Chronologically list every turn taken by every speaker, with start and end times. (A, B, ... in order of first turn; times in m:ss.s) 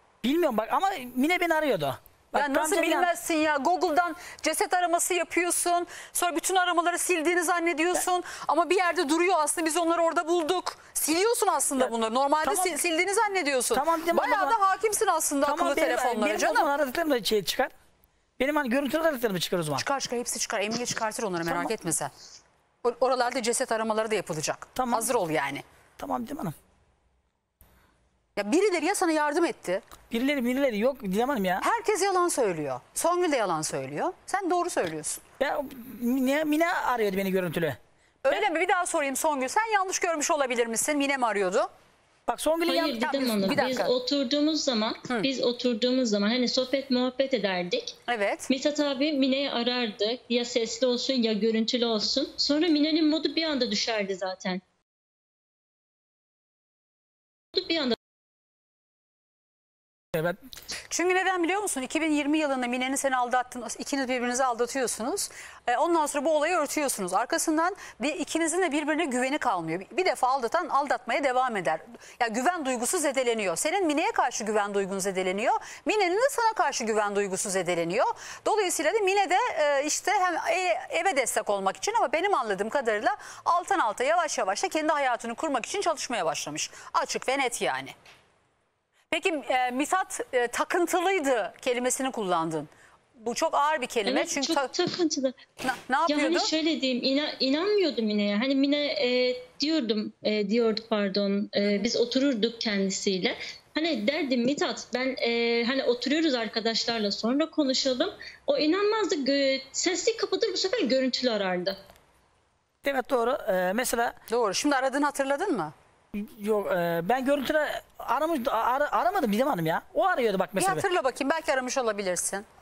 0:00.2-0:03.1 A
0:02.3-0:16.7 B
0:12.4-0:12.8 A
0:13.7-0:14.6 A
0:15.4-0:17.7 A
0:18.4-0:19.8 A
0:19.8-0:22.1 B
0:21.4-0:21.7 A
0:22.8-0:25.6 B
0:24.7-0:25.1 A
0:26.0-0:26.5 A
0:28.4-0:29.8 B
0:30.1-0:31.6 A
0:31.6-0:35.2 B
0:35.4-0:37.8 A
0:38.2-0:41.7 B
0:42.3-0:43.0 A
0:42.6-0:48.0 C
0:43.0-0:43.9 B
0:48.1-0:48.5 B
0:48.5-0:54.6 C
0:57.5-0:58.0 C
1:00.9-1:27.9 B
1:29.1-1:34.7 B
1:34.0-1:35.4 C
1:35.6-1:36.5 B
1:36.1-1:51.8 C
1:52.8-1:54.1 A
1:54.3-1:55.7 B
1:56.1-2:00.8 A
2:00.6-2:02.4 B